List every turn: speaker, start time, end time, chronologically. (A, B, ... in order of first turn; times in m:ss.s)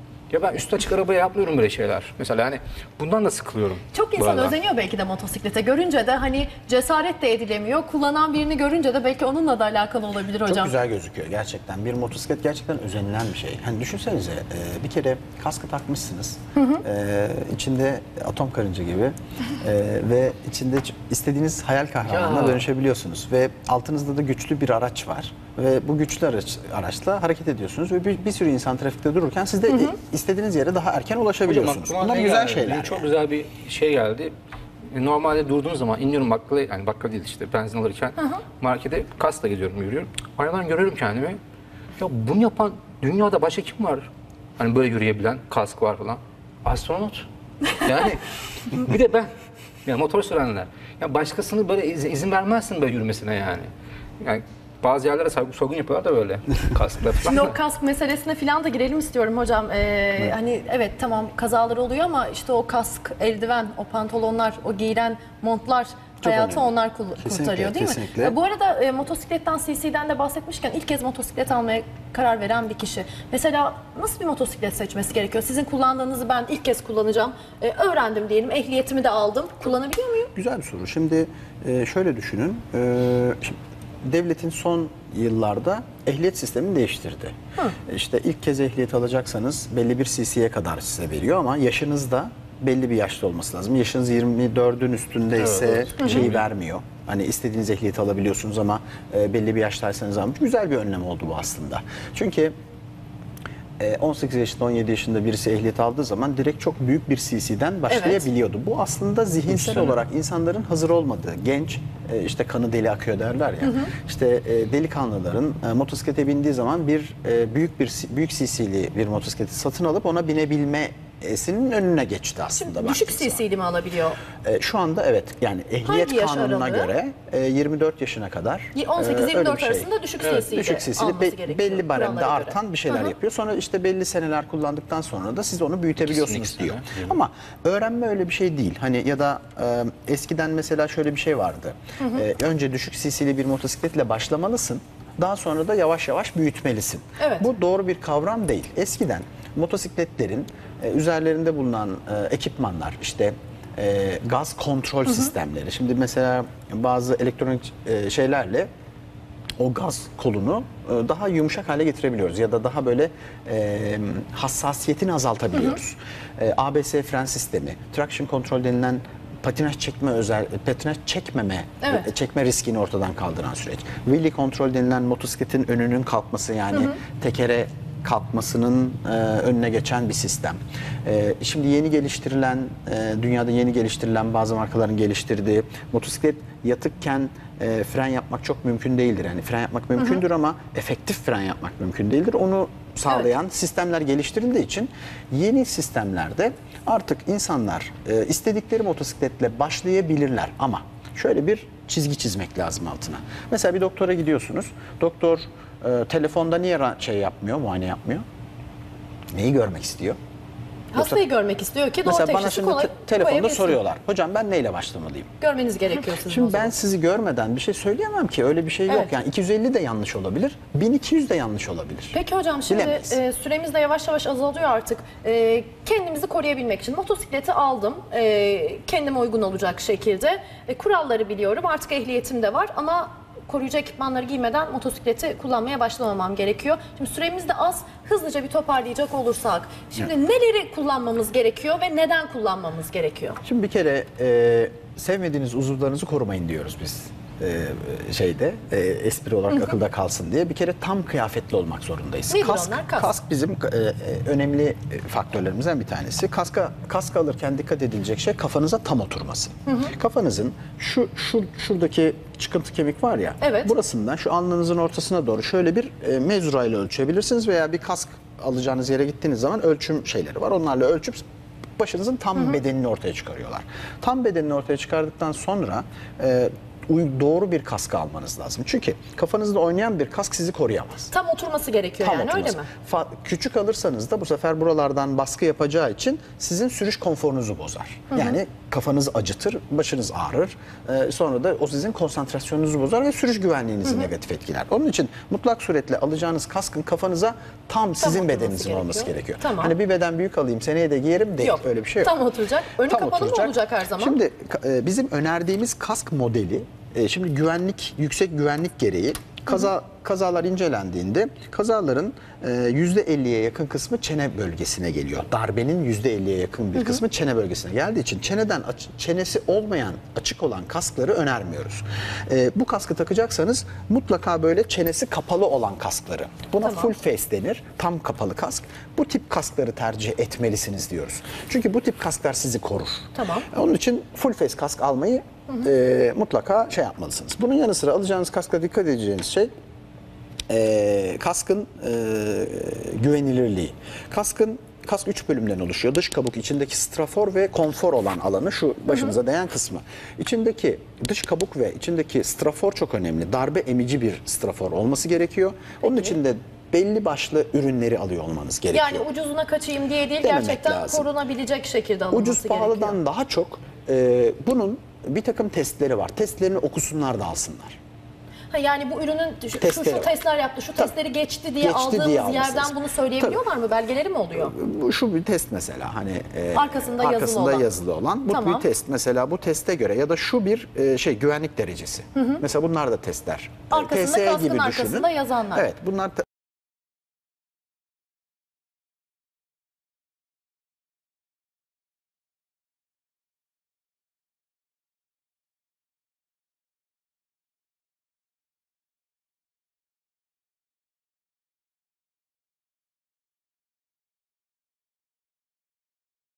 0:00.3-0:04.6 A
0:03.9-0:10.7 B
0:10.4-0:33.1 C
0:16.6-0:16.8 B
0:22.1-0:22.6 A
0:31.5-0:34.3 A
0:34.9-0:41.4 A
0:42.0-0:49.3 A
0:49.9-0:53.7 A
0:54.2-0:57.6 A
0:57.2-1:20.3 B
1:06.2-1:08.4 C
1:20.4-1:27.4 C
1:27.9-1:42.5 C
1:35.4-1:36.4 A
1:43.8-2:03.4 C
1:47.9-1:48.2 B
1:53.6-1:53.9 B
2:02.5-2:04.2 B
2:04.4-2:38.7 C
2:05.8-2:06.9 B
2:08.8-2:13.1 B
2:16.0-2:17.2 A
2:27.2-2:27.5 B
2:39.6-3:28.2 C
2:51.8-2:52.1 B
2:56.7-2:57.0 B
3:29.3-3:30.2 C
3:30.9-3:33.8 B
3:30.9-3:31.2 C
3:32.0-3:35.3 C
3:35.4-3:36.7 B
3:36.3-3:43.2 C
3:42.1-4:03.4 B
4:03.4-4:31.2 C
4:12.3-4:13.1 B
4:23.4-4:23.7 B
4:31.8-4:41.1 C
4:41.1-4:42.7 B
4:42.0-5:02.2 C
4:58.0-4:59.8 B
5:01.4-5:04.2 B
5:02.8-5:39.5 C
5:26.6-5:26.9 B
5:33.2-5:33.5 B
5:40.5-5:59.0 C
5:55.8-5:56.2 B
5:58.7-6:03.0 B
6:00.2-6:01.1 C
6:02.1-6:07.8 C
6:08.5-6:14.6 B
6:09.6-6:10.2 C
6:11.6-6:13.4 C
6:14.3-6:26.3 C
6:16.6-6:17.7 B
6:18.3-6:18.7 B
6:22.2-6:22.4 B
6:23.7-6:25.7 B